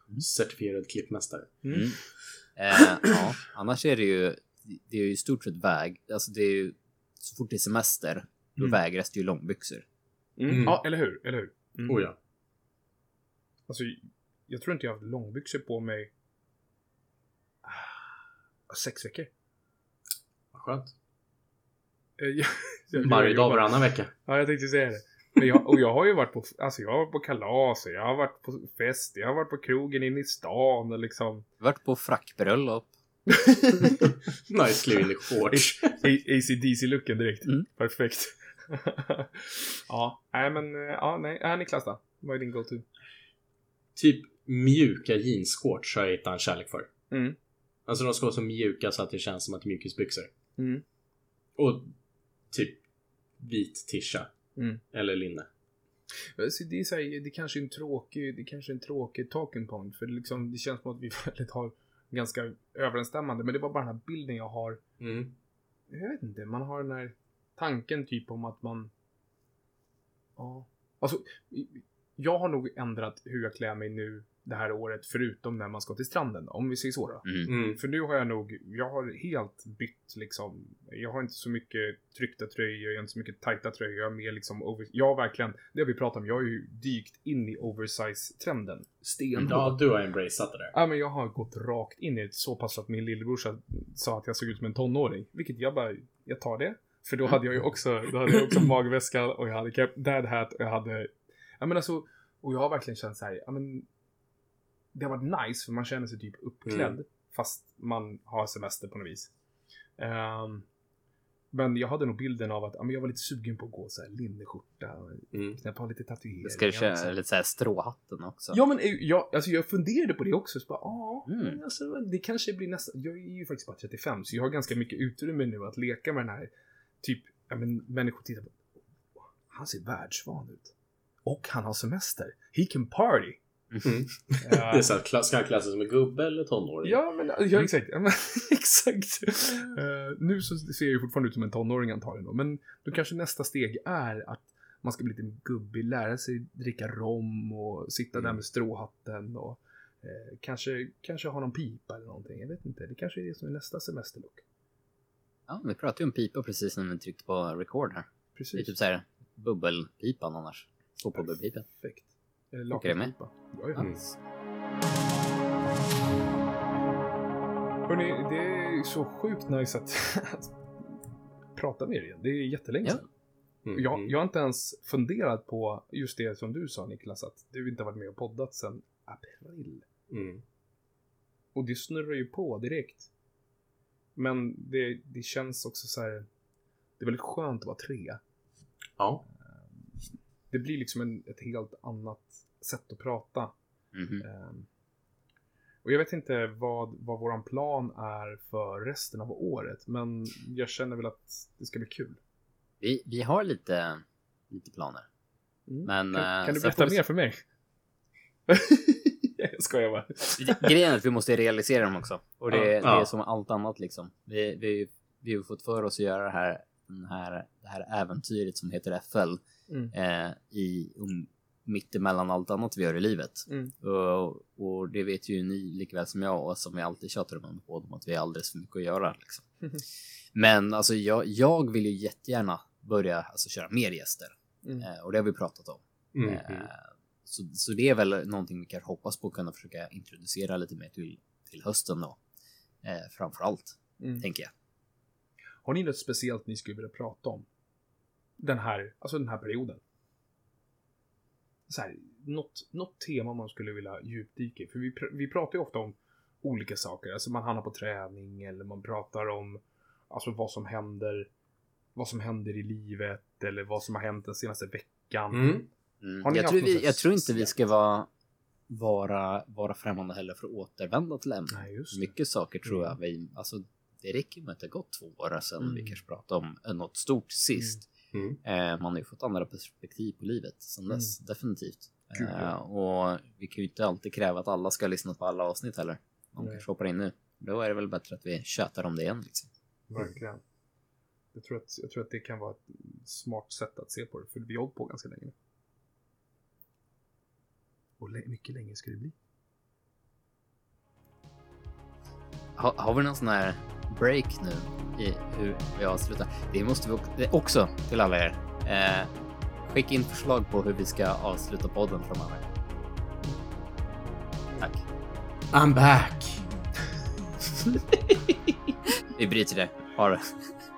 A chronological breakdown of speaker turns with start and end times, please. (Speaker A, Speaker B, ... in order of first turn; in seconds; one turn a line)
Speaker A: 0.2-1.5
Speaker B: 1.6-1.9
Speaker C: 1.7-2.0
Speaker C: 2.6-9.8
Speaker B: 10.4-12.0
Speaker A: 10.5-10.8
Speaker A: 11.8-12.2
Speaker B: 13.7-16.1
Speaker B: 17.6-18.0
Speaker B: 18.7-19.3
Speaker A: 20.5-20.9
Speaker B: 22.2-31.4
Speaker A: 22.9-24.1
Speaker C: 31.6-32.9
Speaker B: 33.3-34.1
Speaker A: 34.5-36.0
Speaker B: 35.5-42.9
Speaker A: 44.0-46.9
Speaker B: 47.1-47.4
Speaker A: 47.9-50.3
Speaker B: 50.6-50.8
Speaker A: 51.5-51.9
Speaker A: 52.5-52.8
Speaker A: 53.4-54.3
Speaker B: 54.5-54.8
Speaker A: 54.9-55.5
Speaker B: 56.4-64.8
Speaker A: 65.0-65.3
Speaker B: 65.9-68.9
Speaker B: 70.4-89.8
Speaker A: 77.5-77.8
Speaker A: 89.4-90.7
Speaker B: 90.7-103.9
Speaker B: 104.9-109.3
Speaker A: 106.7-107.0
Speaker B: 110.0-110.7
Speaker B: 111.5-117.1
Speaker C: 116.4-118.6
Speaker B: 118.5-126.5
Speaker C: 121.3-121.6
Speaker B: 127.0-130.7
Speaker B: 131.2-133.4
Speaker A: 133.8-137.0
Speaker B: 134.4-134.9
Speaker B: 136.8-154.4
Speaker C: 155.5-161.7
Speaker B: 158.3-158.7
Speaker B: 161.2-163.9
Speaker C: 162.7-163.1
Speaker C: 163.7-164.2
Speaker B: 167.9-170.5
Speaker B: 171.5-173.1
Speaker A: 173.6-174.1
Speaker B: 173.7-179.8
Speaker A: 180.1-180.4
Speaker B: 181.5-183.1
Speaker B: 184.2-186.3
Speaker B: 187.0-188.2
Speaker A: 189.0-189.2
Speaker B: 189.3-193.5
Speaker C: 193.9-194.2
Speaker B: 194.2-194.7
Speaker B: 195.8-202.2
Speaker C: 202.8-205.1
Speaker B: 205.7-207.4
Speaker C: 205.8-207.0
Speaker B: 208.5-210.8
Speaker C: 210.4-219.4
Speaker A: 212.8-213.1
Speaker B: 219.7-219.9
Speaker C: 219.9-229.4
Speaker B: 223.5-223.7
Speaker C: 230.3-242.2
Speaker B: 234.6-234.9
Speaker A: 236.1-236.7
Speaker C: 242.8-244.5
Speaker B: 245.6-247.4
Speaker B: 248.4-249.8
Speaker B: 251.7-261.3
Speaker B: 261.9-265.6
Speaker A: 265.3-265.7
Speaker C: 266.0-268.1
Speaker B: 266.2-267.6
Speaker C: 268.7-277.9
Speaker B: 271.5-272.1
Speaker B: 272.6-273.0
Speaker B: 275.6-276.0
Speaker A: 278.1-278.4
Speaker C: 278.4-289.5
Speaker B: 280.9-281.1
Speaker B: 282.1-282.5
Speaker B: 286.4-286.6
Speaker B: 289.9-290.4
Speaker B: 291.3-295.3
Speaker B: 298.0-299.1
Speaker C: 302.6-309.1
Speaker C: 309.6-312.5
Speaker A: 315.5-316.4
Speaker C: 317.9-318.6
Speaker C: 319.1-320.3